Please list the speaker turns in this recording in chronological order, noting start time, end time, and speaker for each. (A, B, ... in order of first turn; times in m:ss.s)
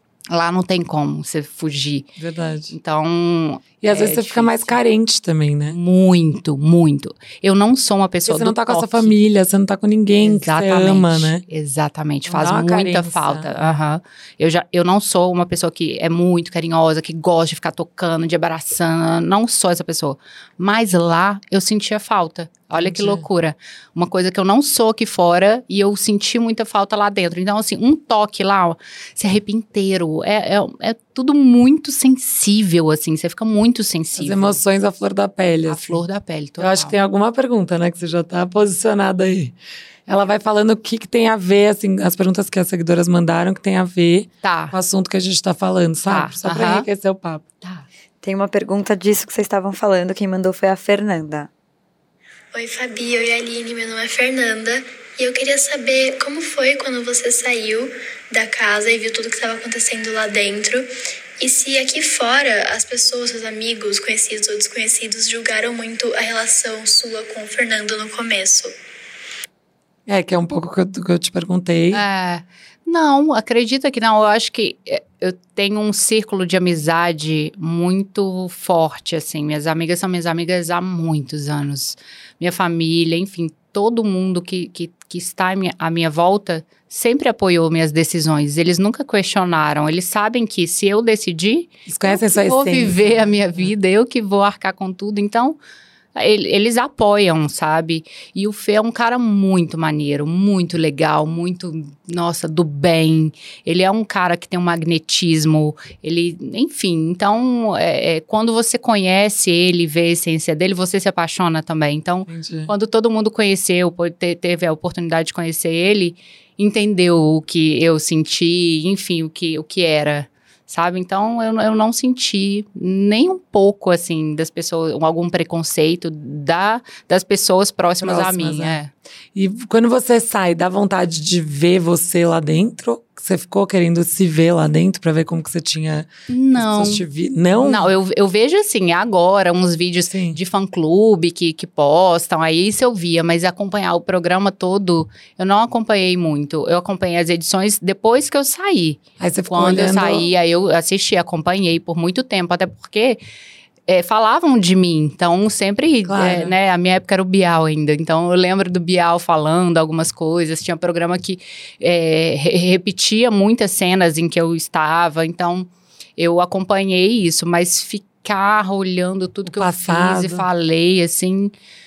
0:00.3-0:02.1 A
0:02.2-0:02.8 B
0:02.7-0:04.8 A
0:03.8-0:05.8 B
0:05.7-0:09.2 A
0:08.3-0:11.4 B
0:10.2-0:34.6 A
0:12.3-0:13.8 B
0:22.7-0:23.3 B
0:34.2-0:36.0 B
0:35.7-0:37.0 A
0:36.6-0:39.6 B
0:40.1-0:47.4 B
0:44.4-0:44.8 A
0:46.1-0:46.9 A
0:48.2-0:51.5 C
0:52.5-1:00.9 D
1:01.4-1:08.7 D
1:10.1-1:12.0 B
1:11.9-1:35.6 A
1:31.9-1:33.7 B
1:36.2-2:08.9 A
1:52.3-1:52.7 B
2:08.0-2:08.8 B
2:09.3-2:17.9 B
2:16.3-2:17.0 A
2:17.6-2:33.2 A
2:20.1-2:20.4 B
2:29.2-2:30.3 B
2:33.9-2:51.5 A
2:36.1-2:36.5 B
2:49.5-2:50.5 B